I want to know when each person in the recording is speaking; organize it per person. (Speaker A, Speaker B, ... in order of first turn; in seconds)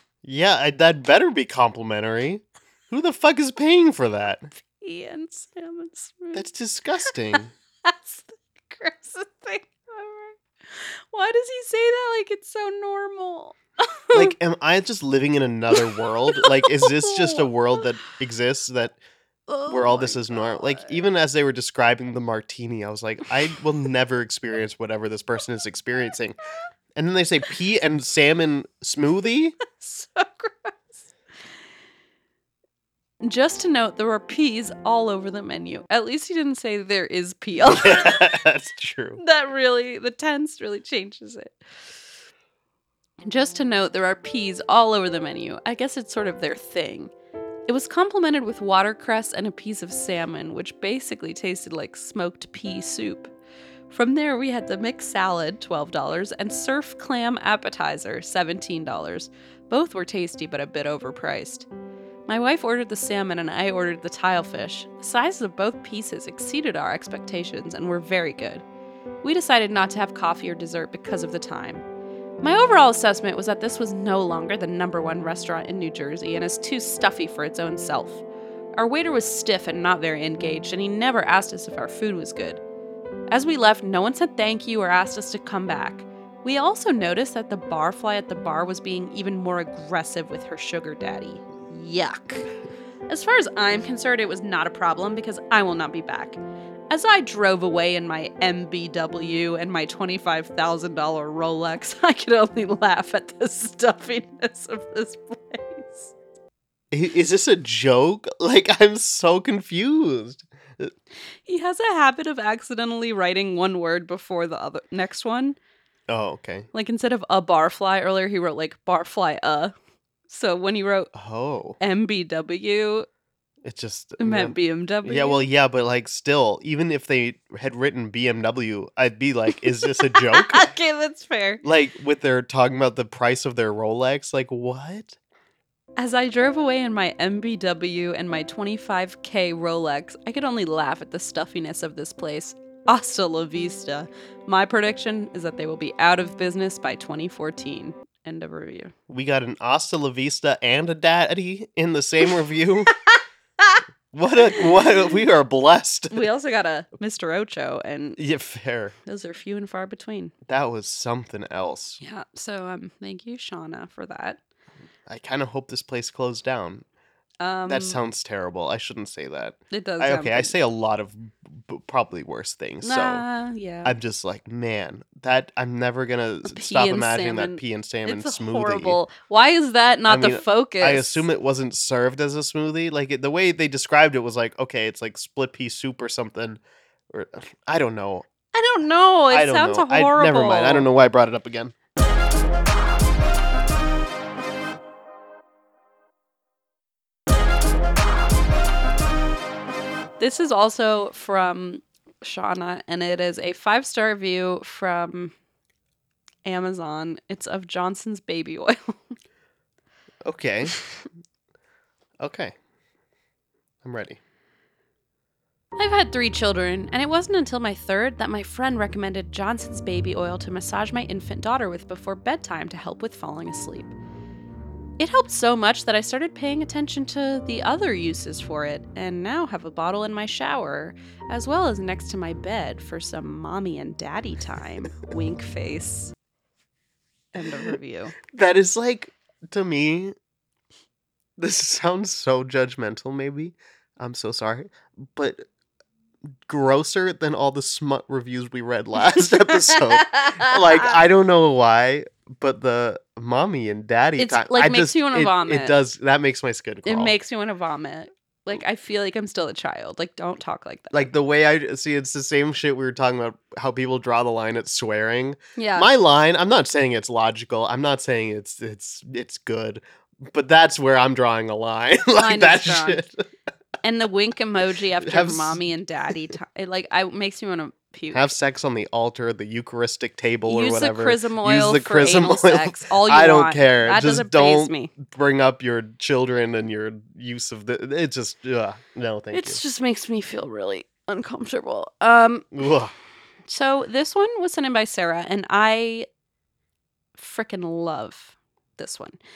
Speaker A: 0.2-4.5, 6.3-7.5, 14.1-19.0, 19.7-26.4, 26.9-29.6, 37.6-39.2, 106.9-110.9, 116.1-116.7, 121.1-121.8, 123.6-130.7, 131.6-135.2, 149.1-152.9, 154.1-156.2, 158.2-159.0, 160.5-162.0, 165.1-166.8, 167.7-173.2, 173.8-179.0, 180.1-188.3, 189.3-191.8, 210.2-210.8, 212.2-212.6, 213.8-214.2, 238.2-240.2, 241.4-245.5, 246.4-257.1, 260.9-273.1, 275.0-275.6, 278.1-289.6, 292.5-292.9
Speaker B: 4.6-6.5, 7.3-14.3, 16.3-17.5, 19.5-21.0, 29.7-30.9, 33.2-38.4, 39.2-41.9, 43.2-47.1, 47.7-53.3, 53.9-61.7, 62.3-68.6, 69.2-71.8, 72.4-78.2, 78.8-82.6, 83.3-92.5, 93.1-96.4, 96.9-106.1, 111.5-115.6, 116.7-119.7, 120.3-121.1, 121.8-123.1, 124.2-125.4, 129.8-131.6, 136.0-148.9, 156.1-158.2, 159.1-160.3, 162.0-164.4, 167.4-168.0, 169.7-170.6, 172.8-173.9, 176.5-181.2, 188.5-190.9, 200.2-205.3, 206.4-209.2, 215.8-223.9, 225.0-236.1, 237.3-238.2, 249.0-251.0, 254.2-255.8, 256.9-261.1, 265.6-265.9, 272.1-273.1, 273.8-278.4, 280.5-284.9, 289.3-292.5, 293.5-296.1, 297.2-299.2